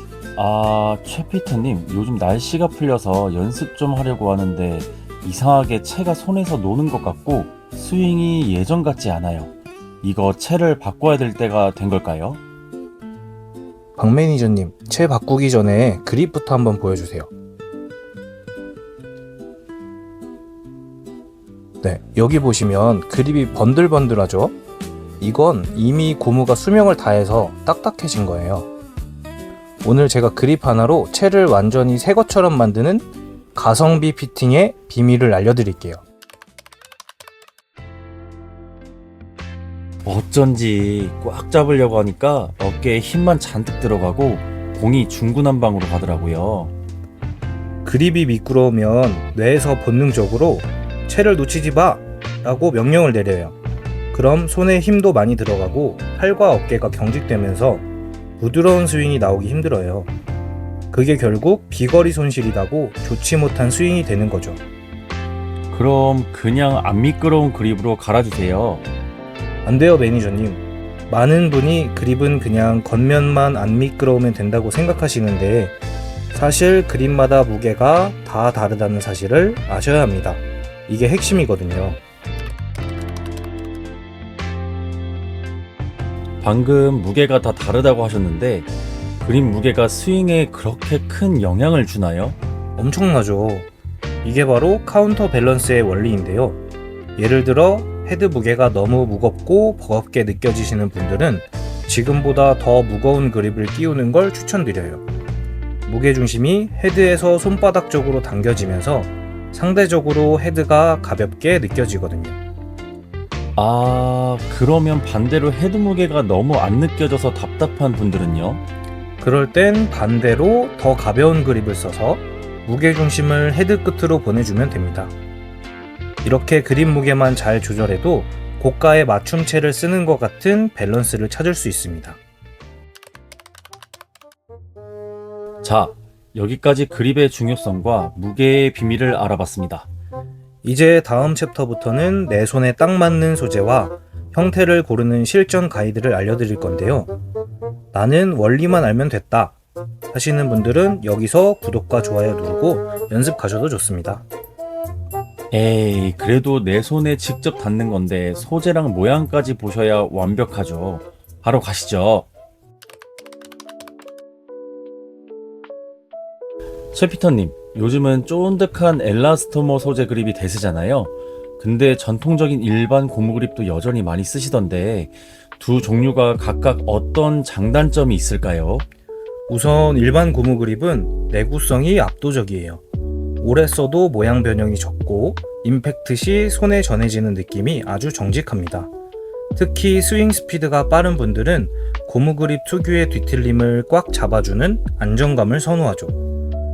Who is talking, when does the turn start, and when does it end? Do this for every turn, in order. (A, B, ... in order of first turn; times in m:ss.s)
0:00.4-0:09.5 A
0:10.0-0:12.4 A
0:14.0-0:17.3 B
0:21.8-0:24.5 B
0:25.2-0:28.7 B
0:29.8-0:36.0 B
0:40.0-0:46.7 A
0:47.8-0:53.6 B
0:54.1-0:57.8 B
0:58.4-1:00.1 B
1:00.9-1:04.6 B
1:05.7-1:08.8 A
1:09.6-1:15.8 B
1:16.3-1:22.0 B
1:26.4-1:28.7 A
1:29.2-1:32.4 A
1:32.8-1:33.7 B
1:34.2-1:36.6 B
1:37.2-1:45.0 B
1:45.8-1:52.4 B
1:53.6-1:58.6 A
1:59.2-2:05.1 B
2:06.2-2:12.2 B
2:15.6-2:19.9 A
2:20.6-2:27.1 B
2:27.9-2:29.6 B
2:30.1-2:34.2 B
2:35.5-2:42.3 A
2:46.9-2:58.8 A
2:59.5-3:02.8 B
3:03.4-3:08.9 B
3:09.5-3:16.2 B